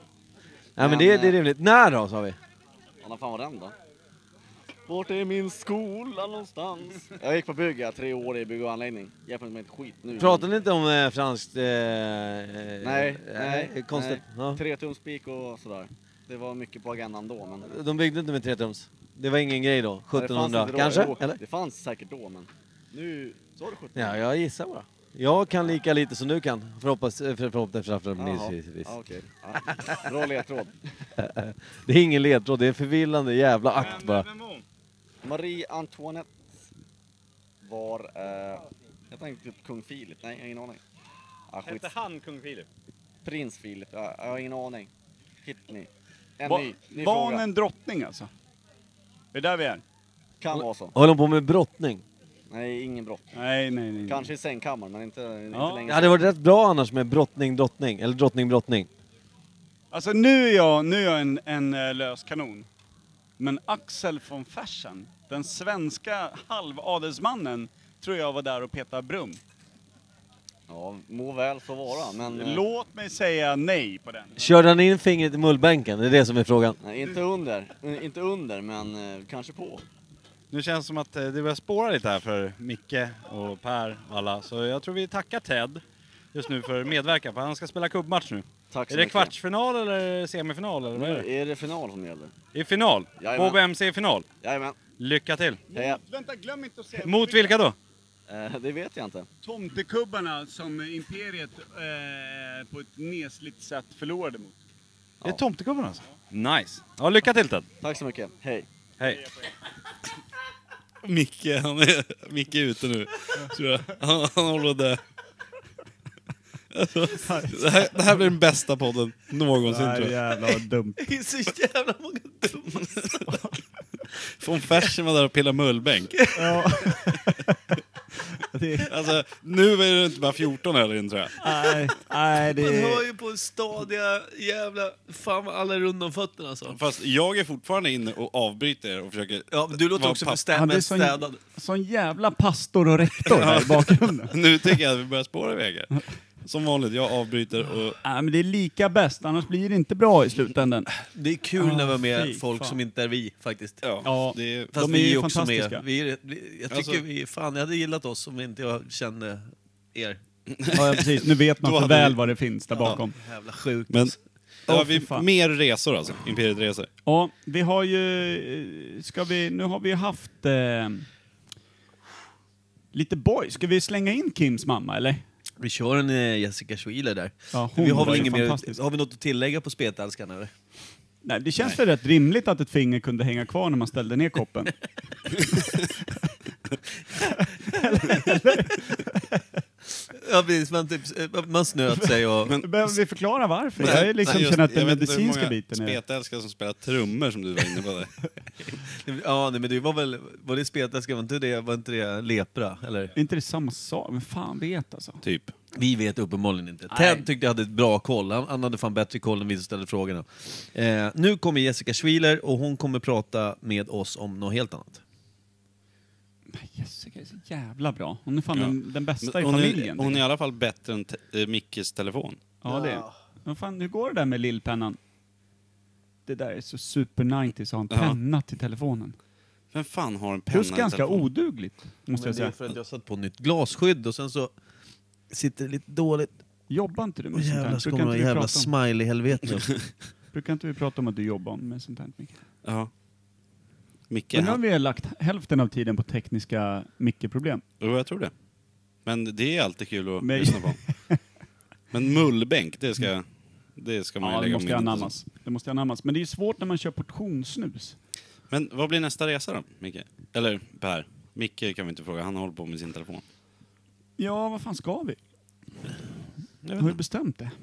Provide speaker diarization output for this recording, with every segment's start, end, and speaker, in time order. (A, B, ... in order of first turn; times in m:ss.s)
0:00.8-0:02.4 A
0:00.8-0:01.4 B
0:03.0-0:03.8 B
0:04.9-0:10.5 B
0:10.2-0:14.6 A
0:12.8-0:17.7 B
0:17.6-0:21.4 A
0:20.1-0:24.2 B
0:24.0-0:28.9 A
0:28.2-0:30.8 B
0:29.7-0:30.0 A
0:31.2-0:34.3 A
0:33.8-0:34.6 C
0:35.2-0:36.4 B
0:37.6-0:40.8 B
0:41.5-0:41.9 B
0:41.6-0:42.7 C
0:43.2-0:44.9 B
0:45.4-0:47.4 B
0:46.4-0:48.3 D
0:49.3-0:49.8 D
0:50.4-0:50.9 B
0:50.5-0:52.0 A
0:52.5-0:53.3 B
0:53.3-0:54.3 D
0:54.1-0:56.2 B
0:55.5-0:55.9 D
0:55.9-0:58.9 A
0:59.9-1:02.7 D
1:03.4-1:09.4 D
1:10.7-1:12.6 B
1:12.3-1:14.4 D
1:14.4-1:16.8 A
1:16.8-1:19.8 B
1:20.5-1:25.8 C
1:26.3-1:31.3 C
1:28.7-1:29.3 B
1:31.0-1:32.3 B
1:32.5-1:34.3 C
1:33.2-1:33.6 B
1:34.4-1:34.8 B
1:35.0-1:35.6 C
1:35.7-1:37.6 D
1:35.7-1:36.0 B
1:37.0-1:37.8 C
1:38.3-1:39.3 B
1:39.4-1:44.6 D
1:45.2-1:47.7 C
1:47.8-1:48.7 B
1:51.0-1:55.0 E
1:56.7-2:00.5 E
1:57.1-1:58.2 D
1:59.6-2:01.0 D
2:01.0-2:03.3 A
2:03.3-2:03.6 D
2:04.4-2:06.2 E
2:06.4-2:07.8 D
2:08.5-2:09.0 D
2:08.8-2:11.4 E
2:11.4-2:13.0 D
2:12.5-2:16.8 A
2:16.7-2:20.4 E
2:19.5-2:21.4 A
2:20.5-2:24.4 D
2:23.3-2:28.0 E
2:28.0-2:30.9 D
2:31.1-2:33.8 A
2:31.6-2:32.8 D
2:33.8-2:34.7 E
2:34.0-2:35.8 D
2:34.7-2:40.2 A
2:36.7-2:37.0 E
2:40.6-2:42.2 E
2:40.7-2:43.2 D
2:42.8-2:44.2 A
2:43.9-2:44.2 E
2:44.7-2:45.3 D
2:44.7-2:46.9 E
2:47.1-2:51.0 D
2:52.9-2:55.2 D
2:55.6-3:00.5 A
2:57.5-2:58.8 D
3:01.2-3:04.8 D
3:07.6-3:09.4 D
3:07.7-3:08.4 A
3:10.1-3:12.6 A
3:12.5-3:16.0 D
3:13.8-3:18.1 E
3:13.8-3:14.4 A
3:18.9-3:23.1 A
3:23.2-3:25.2 D
3:25.2-3:25.6 E
3:25.8-3:35.0 A
3:26.9-3:27.2 D
3:36.5-3:40.2 D
3:38.5-3:42.5 E
3:42.6-3:45.0 D
3:42.7-3:43.2 A
3:46.3-3:49.2 D
3:47.9-3:48.2 E
3:49.7-3:51.3 E
3:50.5-3:52.5 D
3:52.1-3:54.5 A
3:55.3-3:56.4 A
3:56.7-3:58.7 D
3:57.3-3:59.8 A
4:00.3-4:02.4 D
4:02.6-4:02.9 E
4:04.1-4:04.6 E
4:04.3-4:07.6 D
4:07.8-4:08.3 E
4:09.0-4:10.8 E
4:10.2-4:11.2 D
4:11.9-4:15.1 E
4:14.2-4:18.0 D
4:18.5-4:23.2 E
4:24.2-4:25.2 D
4:26.6-4:27.0 E
4:26.8-4:27.5 D